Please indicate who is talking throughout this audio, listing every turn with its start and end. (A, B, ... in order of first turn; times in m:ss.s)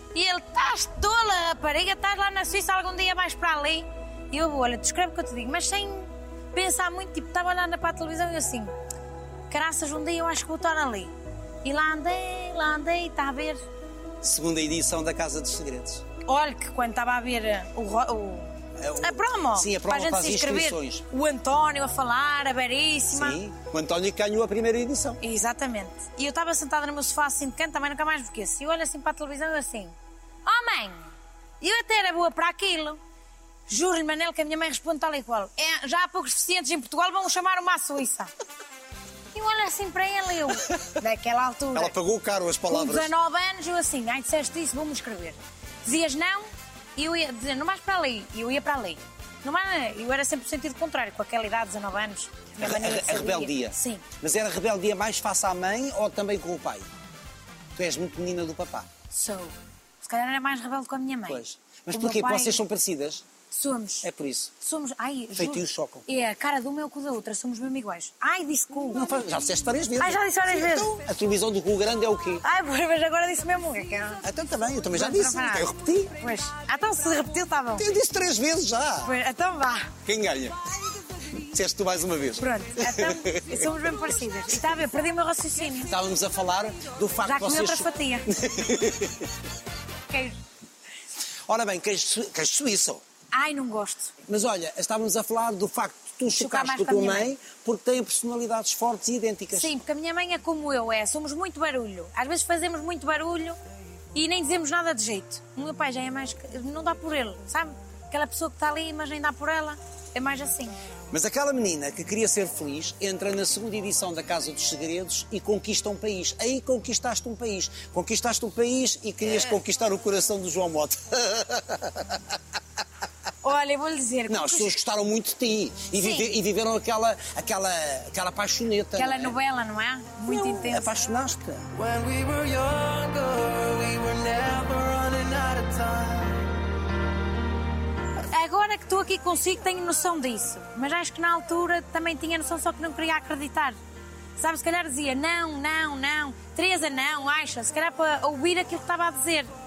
0:00.1-0:08.7 A
0:09.5-0:13.6 A
0:14.2-0:16.0 B
0:16.2-0:23.4 A
0:18.8-0:21.0 B
0:23.1-0:25.2 B
0:25.2-0:30.0 A
0:30.5-0:33.0 A
0:33.7-0:38.3 A
0:39.3-0:42.0 A
0:41.7-0:43.1 B
0:42.7-0:54.0 A
0:52.6-0:56.9 B
0:57.8-0:58.9 B
0:59.1-1:02.6 A
1:01.3-1:03.2 B
1:03.5-1:04.1 A
1:04.0-1:04.5 B
1:04.6-1:09.0 A
1:05.4-1:06.0 B
1:08.9-1:12.4 B
1:10.0-1:11.0 A
1:12.4-1:14.2 A
1:14.2-1:16.2 B
1:14.9-1:17.9 A
1:17.8-1:19.1 B
1:19.0-1:19.9 A
1:20.0-1:20.6 B
1:21.3-1:23.8 B
1:22.4-1:25.9 A
1:25.9-1:29.3 B
1:27.2-1:28.3 A
1:30.1-1:30.4 A
1:31.5-1:33.0 B
1:33.3-1:34.1 A
1:34.3-1:39.8 B
1:36.3-1:37.3 A
1:39.5-1:43.6 A
1:44.1-1:50.8 A
1:51.1-2:02.3 B
2:03.4-2:04.8 A
2:04.3-2:09.4 B
2:06.0-2:06.3 A
2:09.0-2:11.0 A
2:10.3-2:11.7 B
2:11.7-2:16.5 C
2:18.3-2:23.8 A
2:24.4-2:29.5 A